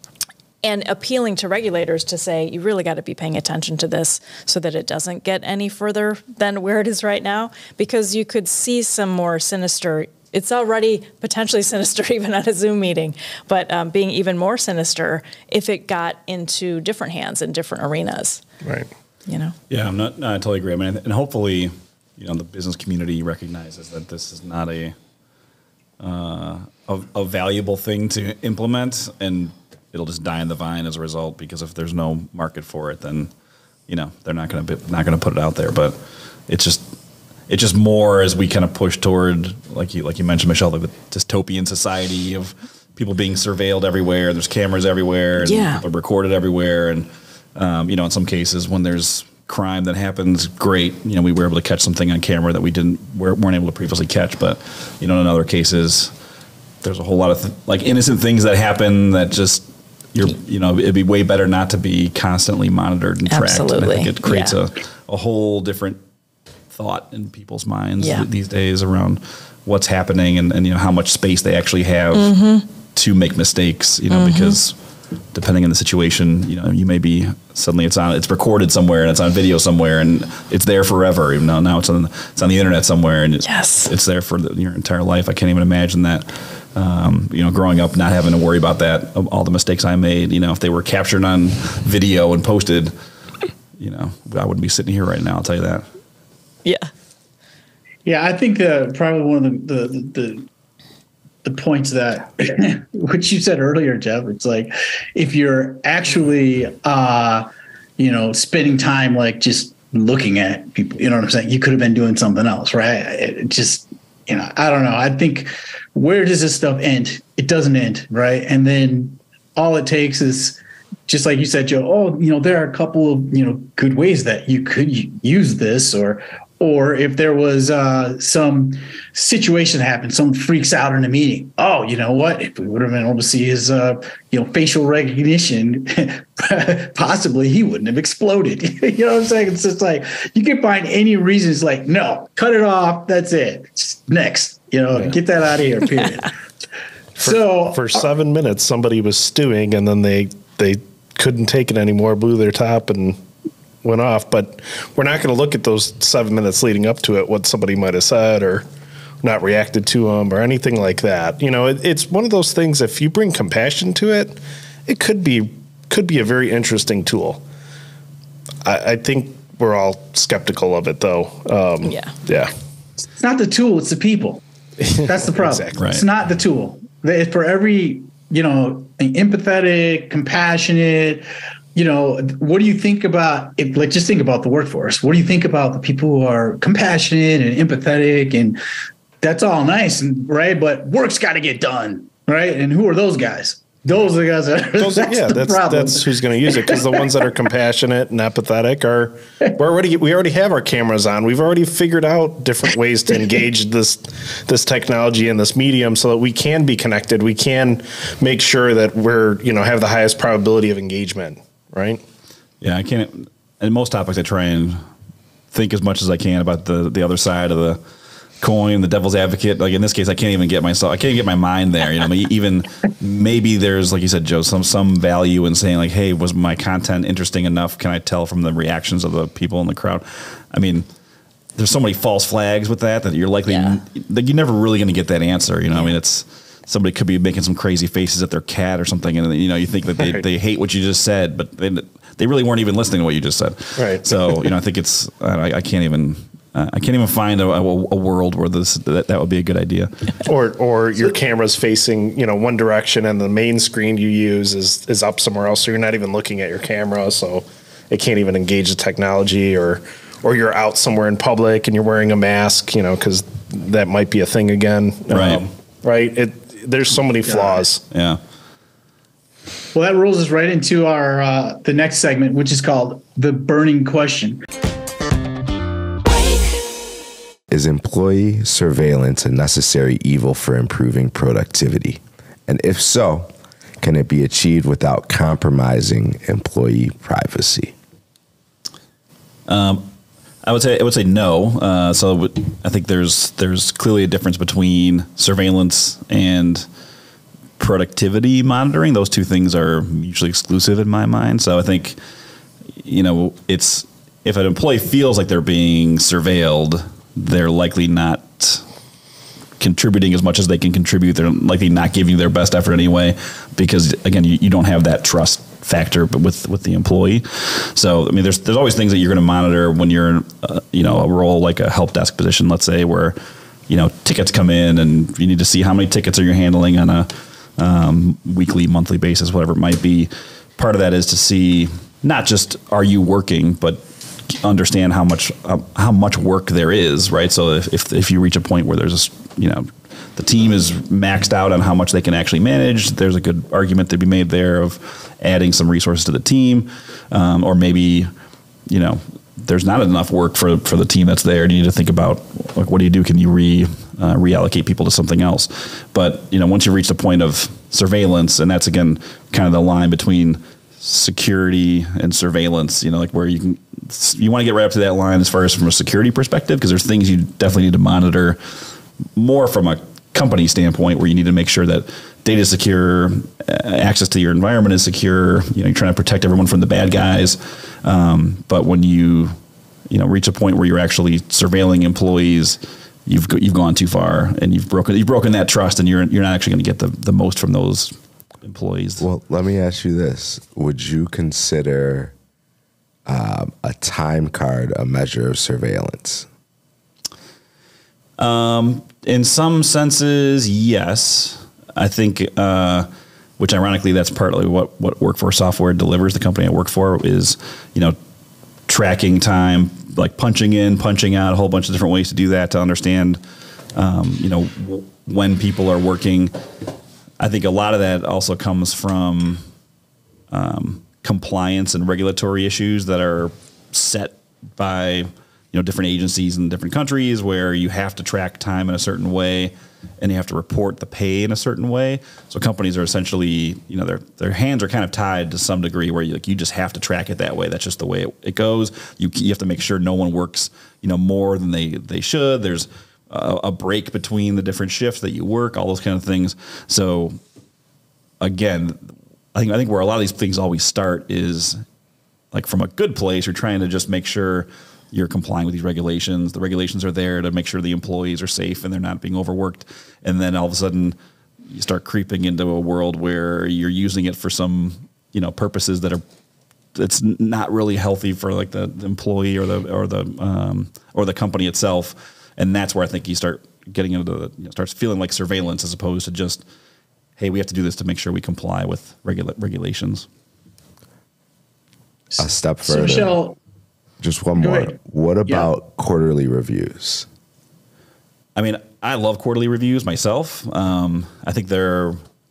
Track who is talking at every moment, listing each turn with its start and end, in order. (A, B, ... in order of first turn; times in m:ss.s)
0:00.6-0:18.4 A
0:18.6-0:18.9 B
0:19.3-0:19.6 A
0:19.7-0:25.0 C
0:26.0-0:33.3 C
0:33.9-0:36.0 C
0:36.5-0:36.9 C
0:37.5-0:56.1 C
0:45.4-0:45.8 A
0:56.8-1:06.0 C
1:03.3-1:04.6 A
1:06.7-1:12.3 C
1:12.1-1:12.7 A
1:12.9-1:14.8 C
1:14.1-1:14.6 A
1:15.3-1:32.9 C
1:23.4-1:23.9 A
1:33.8-1:35.8 C
1:36.6-1:36.9 A
1:38.0-1:40.5 D
1:41.4-1:47.5 D
1:48.0-2:26.3 D
2:27.2-2:28.0 D
2:27.2-2:33.2 B
2:33.8-2:38.6 B
2:39.2-2:47.4 B
2:48.6-2:52.5 B
2:51.8-2:52.1 A
2:53.2-2:54.4 D
2:54.8-2:55.8 B
2:55.0-3:08.6 D
2:55.8-2:56.0 C
3:09.2-3:17.3 D
3:14.8-3:32.0 B
3:32.6-3:34.8 C
3:35.5-3:37.8 C
3:38.4-3:50.9 C
3:51.6-4:09.9 C
3:53.5-3:53.8 A
4:03.8-4:04.4 B
4:10.2-4:27.8 B
4:25.1-4:25.4 C
4:27.2-4:27.6 D
4:27.9-4:28.2 C
4:29.7-4:34.4 D
4:37.5-4:43.3 E
4:43.8-4:47.7 E
4:49.5-4:49.9 C
4:50.4-4:56.7 C
4:57.6-5:02.0 C
5:02.8-5:08.6 C
5:09.6-5:23.2 C
5:23.7-5:48.1 C
5:48.7-6:08.4 C
6:09.2-6:19.4 C
6:19.9-6:29.0 C
6:29.0-6:32.1 E
6:33.1-6:36.3 E
6:38.2-6:42.9 C
6:43.4-6:48.0 C
6:48.7-6:53.2 C
6:53.8-6:56.3 C
6:57.2-6:59.4 C
7:00.3-7:27.2 C
7:28.2-7:31.6 C
7:32.3-7:41.0 C
7:41.5-7:46.0 C
7:46.7-7:56.4 C
7:57.2-8:00.1 C
8:02.1-8:03.4 D
8:02.2-8:03.2 E
8:04.0-8:07.1 E
8:04.4-8:04.7 D
8:08.4-8:12.0 C